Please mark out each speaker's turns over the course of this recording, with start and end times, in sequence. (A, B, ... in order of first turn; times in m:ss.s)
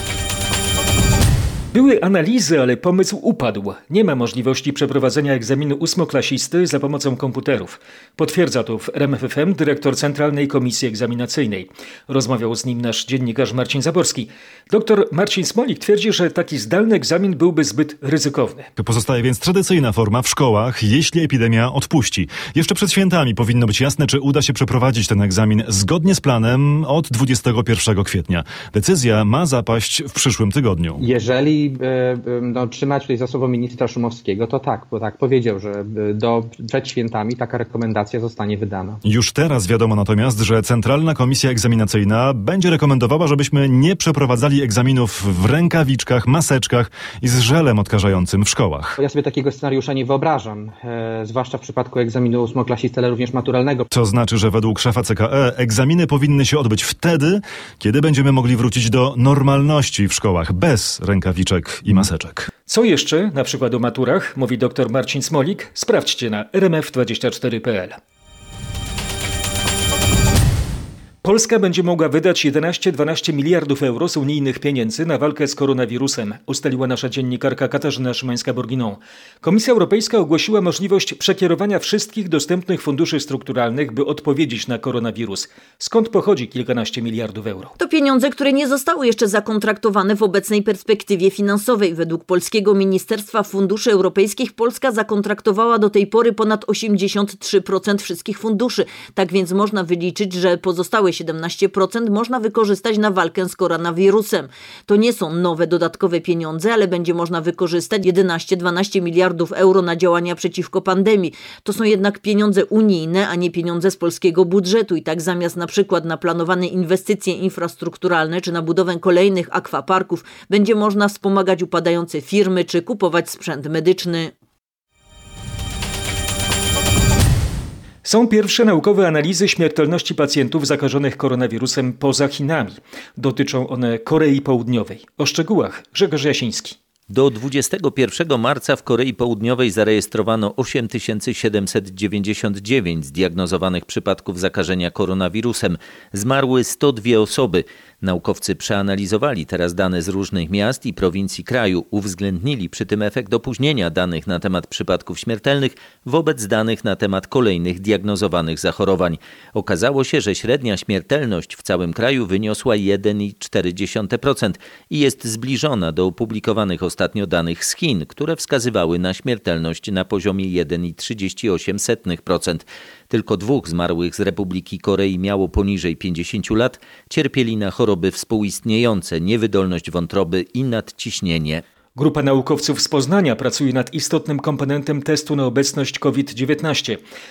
0:01.7-0:18.7 A
0:18.8-0:31.0 B
0:31.0-0:39.0 C
0:39.0-0:49.0 B
0:49.0-0:53.9 C
0:53.9-1:02.5 B
1:02.7-1:08.0 A
1:11.2-1:27.7 A
1:27.8-2:04.3 D
2:08.0-2:16.8 A
2:17.1-3:01.6 E
3:02.0-3:07.0 A